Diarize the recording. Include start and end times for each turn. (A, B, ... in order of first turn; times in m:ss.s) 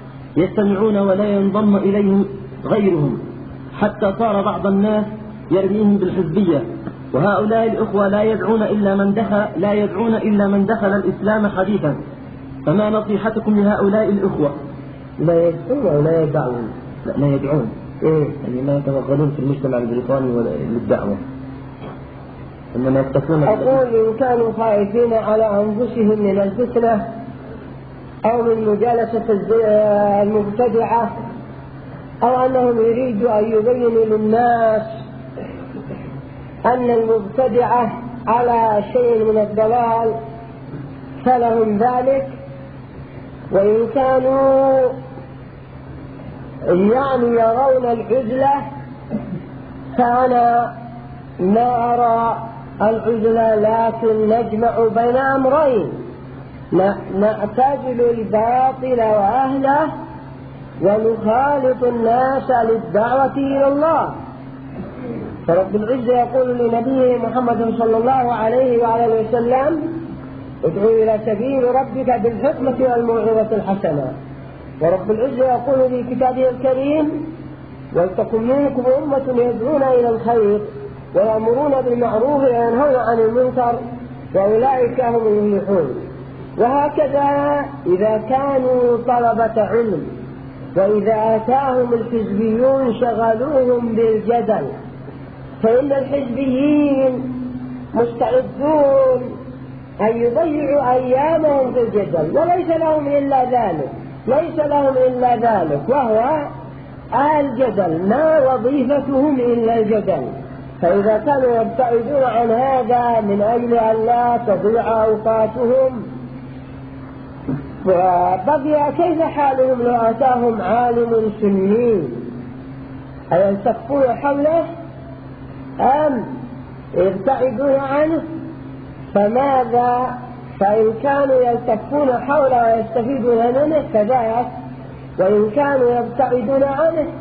0:00.4-0:03.2 A
0:03.7-0:12.0 A
0:12.6-0:14.6 A
0:15.2-0:16.7 B
0:17.1-0:17.7 A
0:18.0-0:18.4 B
0:18.4-0:21.2 A
0:22.7-0:23.8 A
0:23.5-0:27.1 B
0:28.2-0:31.1 B
0:32.2-0:34.9 B
0:36.6-0:40.2 B
0:41.2-0:42.4 B
0:43.5-0:45.0 B
0:46.7-0:48.6 B
0:49.9-0:50.7 B
0:51.4-0:56.0 B
0:56.7-0:59.9 B
1:00.8-1:04.2 B
1:05.5-1:09.8 B
1:10.6-1:14.1 B
1:14.8-1:17.3 B
1:17.9-1:26.0 B
1:26.6-1:30.1 B
1:30.8-1:34.7 B
1:35.6-1:39.3 B
1:40.0-1:46.5 B
1:47.1-1:56.0 B
1:57.8-2:02.3 B
2:03.3-2:04.6 B
2:05.8-2:06.3 B
2:06.9-2:08.2 B
2:09.1-2:14.5 B
2:15.2-2:17.1 B